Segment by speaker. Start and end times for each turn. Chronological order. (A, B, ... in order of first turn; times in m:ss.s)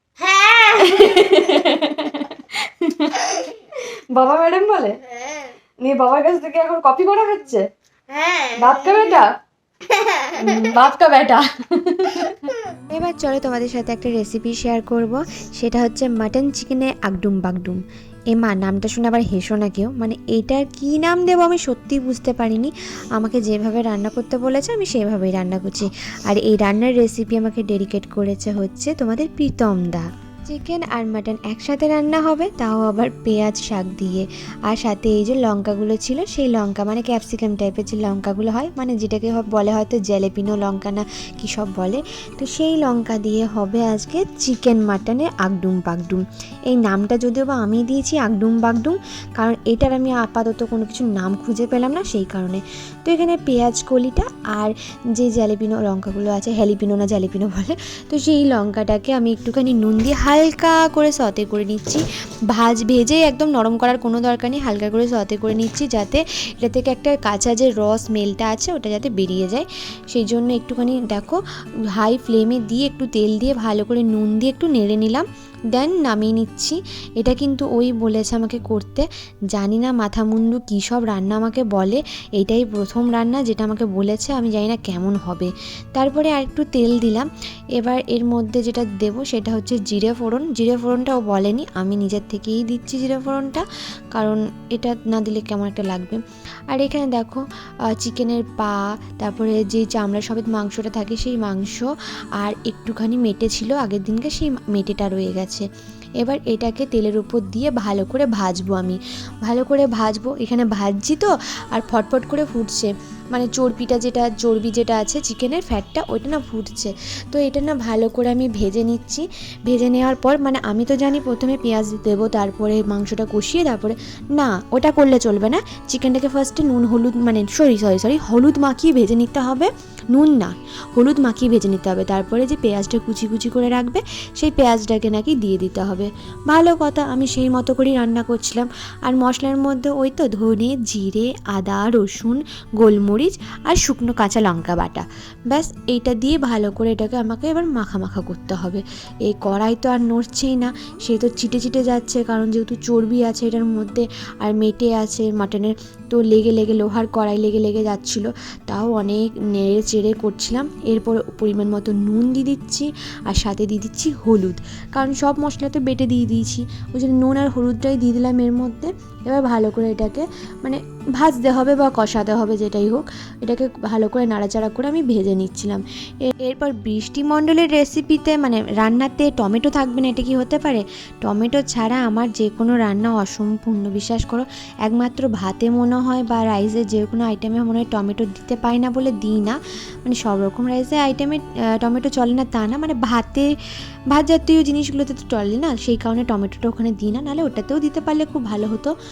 0:00.2-0:01.7 A
0:00.8-0:05.0 B
0:05.1-0:05.6 A
0:05.8-0:07.6 B
0:08.1-0:09.2 A
0:08.6-0:09.3 B
0:09.9-0:10.8 A
0:10.3-0:12.5 B
0:12.2-0:12.8 A
0:12.9-0:17.8 C
0:18.3-1:11.4 C
1:11.9-1:36.2 C
1:36.7-1:37.4 C
1:38.0-1:41.9 C
1:42.4-1:45.7 C
1:46.2-3:13.5 C
3:14.1-3:18.9 C